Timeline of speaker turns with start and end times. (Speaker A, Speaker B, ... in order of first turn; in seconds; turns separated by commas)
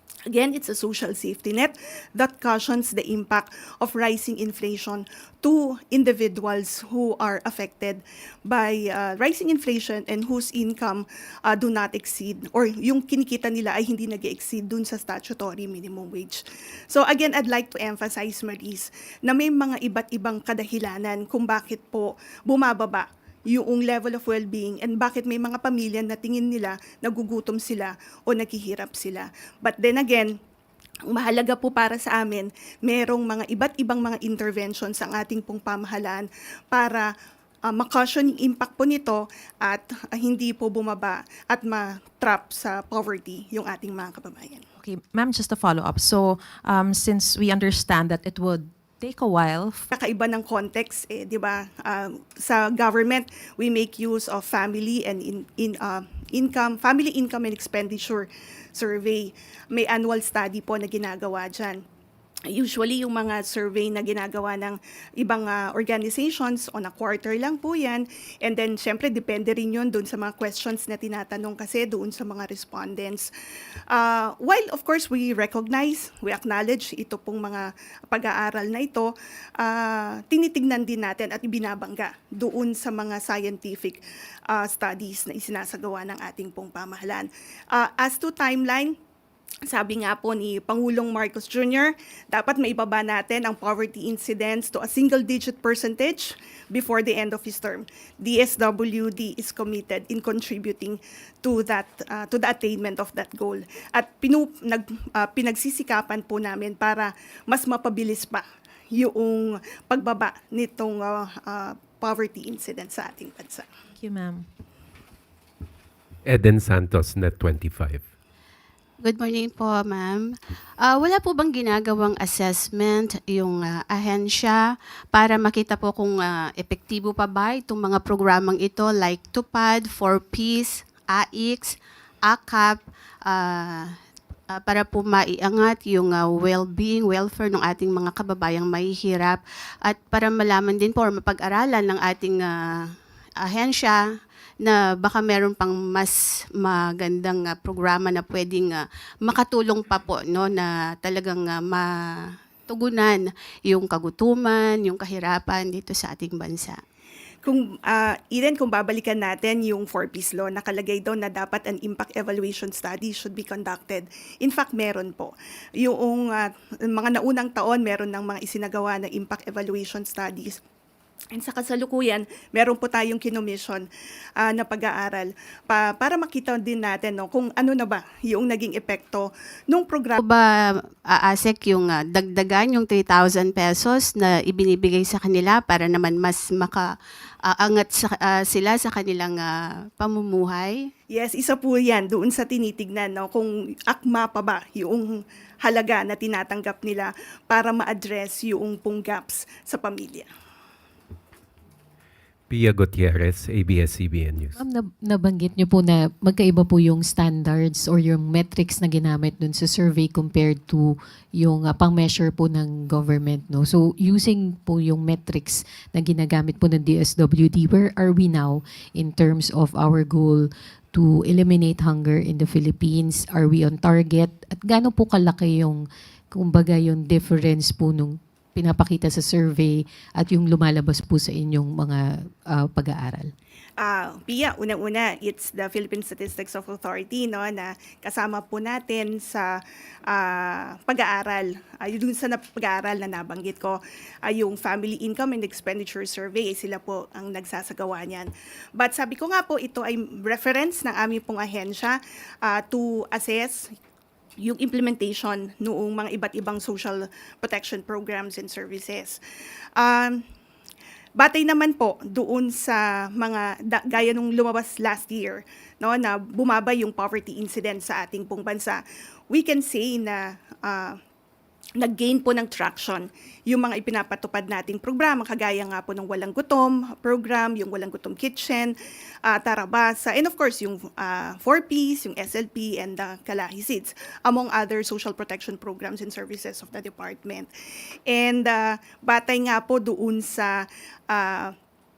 Speaker A: 0.3-30.4, Speaker A: 31.1-37.1, Speaker A: 37.7-44.6, Speaker B: 44.8-49.9, Speaker A: 49.9-61.8, Speaker A: 62.5-73.3, Speaker A: 73.9-89.0, Speaker A: 89.7-113.7, Speaker B: 114.0-114.5, Speaker C: 116.2-118.0, Speaker D: 119.0-133.9, Speaker D: 134.5-144.1, Speaker D: 144.6-156.8, Speaker A: 157.4-170.6, Speaker A: 171.3-173.9, Speaker A: 174.4-180.2, Speaker D: 180.2-186.9, Speaker D: 187.5-190.9, Speaker A: 191.1-200.3, Speaker C: 202.5-204.6, Speaker E: 204.6-233.3, Speaker A: 233.8-239.6, Speaker A: 240.1-253.7, Speaker A: 254.4-259.2, Speaker A: 259.8-260.2, Speaker A: 261.2-271.0, Speaker A: 271.8-287.5, Speaker A: 288.1-291.6